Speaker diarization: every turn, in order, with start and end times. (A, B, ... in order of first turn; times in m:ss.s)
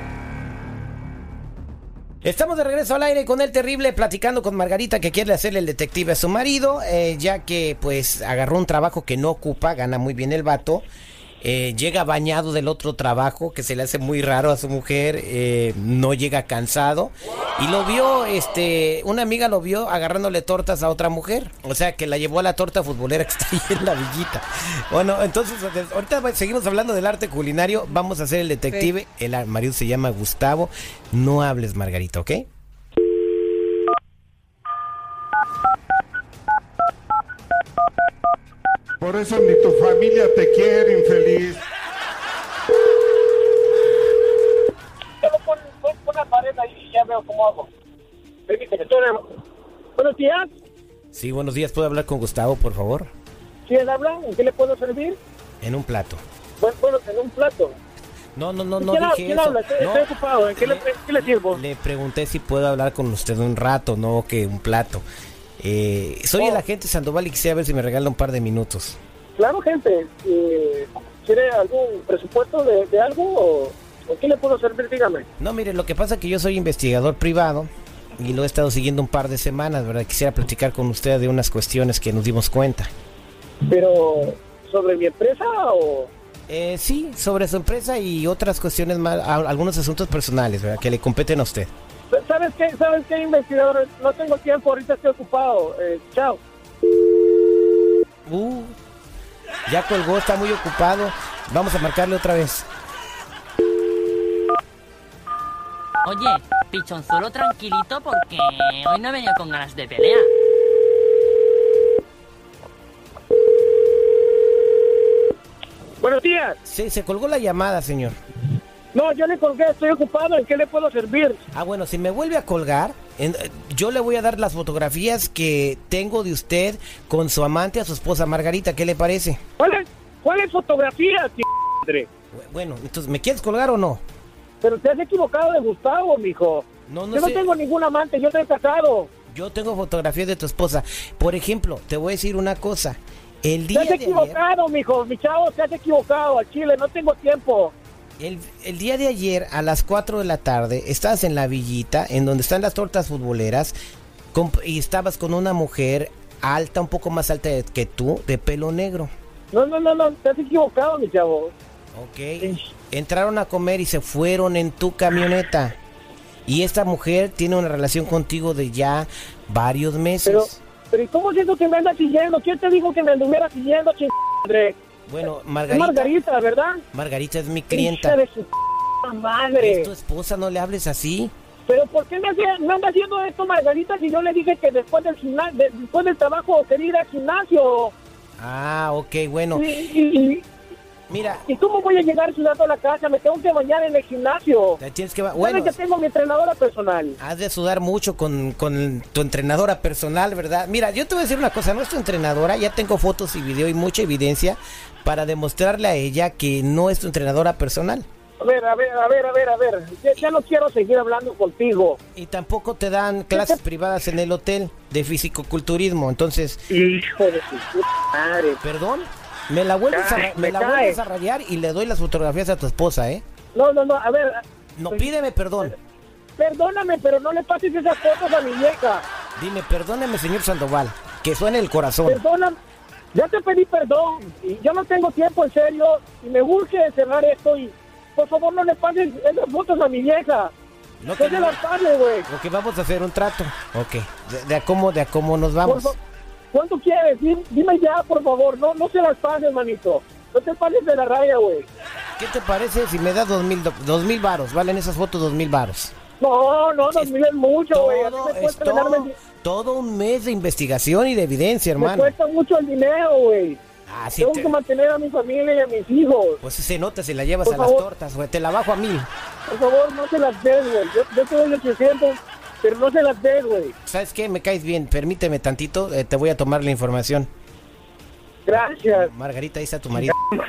0:02.2-0:10.8 A
0:11.4-0:32.5 A
0:39.0-0:41.6 B
0:45.2-0:47.7 C
0:48.5-0:49.3 C
0:50.0-0:50.5 C
0:51.1-0:53.1 A
0:53.6-0:55.2 C
0:55.6-0:56.2 A
0:56.6-0:57.8 C
0:58.4-1:00.9 A
0:58.8-1:01.6 C
1:01.4-1:05.0 A
1:05.6-1:09.0 A
1:06.4-1:06.6 C
1:09.4-1:15.2 C
1:15.4-1:22.9 A
1:23.6-1:26.1 C
1:26.5-1:31.7 A
1:32.1-1:36.4 C
1:38.2-1:38.8 A
1:39.6-1:42.7 A
1:46.0-1:50.3 D
1:56.0-1:56.6 C
1:56.6-1:58.1 A
1:58.9-2:01.4 C
2:01.5-2:09.4 A
2:09.6-2:12.1 C
2:12.3-2:14.0 A
2:14.6-2:19.1 C
2:16.9-2:17.5 A
2:19.3-2:24.4 A
2:23.7-2:27.7 C
2:28.2-2:33.7 A
2:34.3-2:39.1 A
2:39.5-2:41.5 C
2:41.9-2:45.8 A
2:42.4-2:42.7 C
2:46.4-2:50.6 A
2:50.2-2:54.8 C
2:55.1-2:56.1 A
2:55.7-2:56.8 C
2:56.9-2:58.2 A
2:57.7-2:59.9 C
2:59.6-3:01.3 A
3:01.6-3:07.9 C
3:08.4-3:09.6 A
3:09.5-3:10.5 C
3:11.1-3:11.4 A
3:11.4-3:14.8 C
3:14.8-3:15.8 A
3:15.3-3:17.2 C
3:17.2-3:28.0 A
3:28.4-3:32.0 C
3:32.1-3:36.6 A
3:33.3-3:33.6 C
3:36.7-3:38.6 C
3:38.6-3:43.2 A
3:39.9-3:41.0 C
3:43.5-3:45.8 C
3:44.8-3:45.7 A
3:46.4-3:49.0 C
3:49.4-3:52.2 A
3:52.0-3:52.5 C
3:53.1-4:00.5 C
4:01.0-4:01.6 A
4:01.2-4:02.3 C
4:02.3-4:05.9 A
4:05.6-4:06.0 C
4:06.5-4:11.7 C
4:12.2-4:15.9 A
4:16.2-4:19.2 C
4:16.9-4:17.1 A
4:17.7-4:22.1 A
4:21.8-4:23.6 C
4:23.9-4:24.5 A
4:24.2-4:26.4 C
4:26.4-4:29.1 A
4:27.4-4:27.8 C
4:29.5-4:33.7 C
4:33.9-4:37.3 A
4:38.4-4:39.1 C
4:38.5-4:40.1 A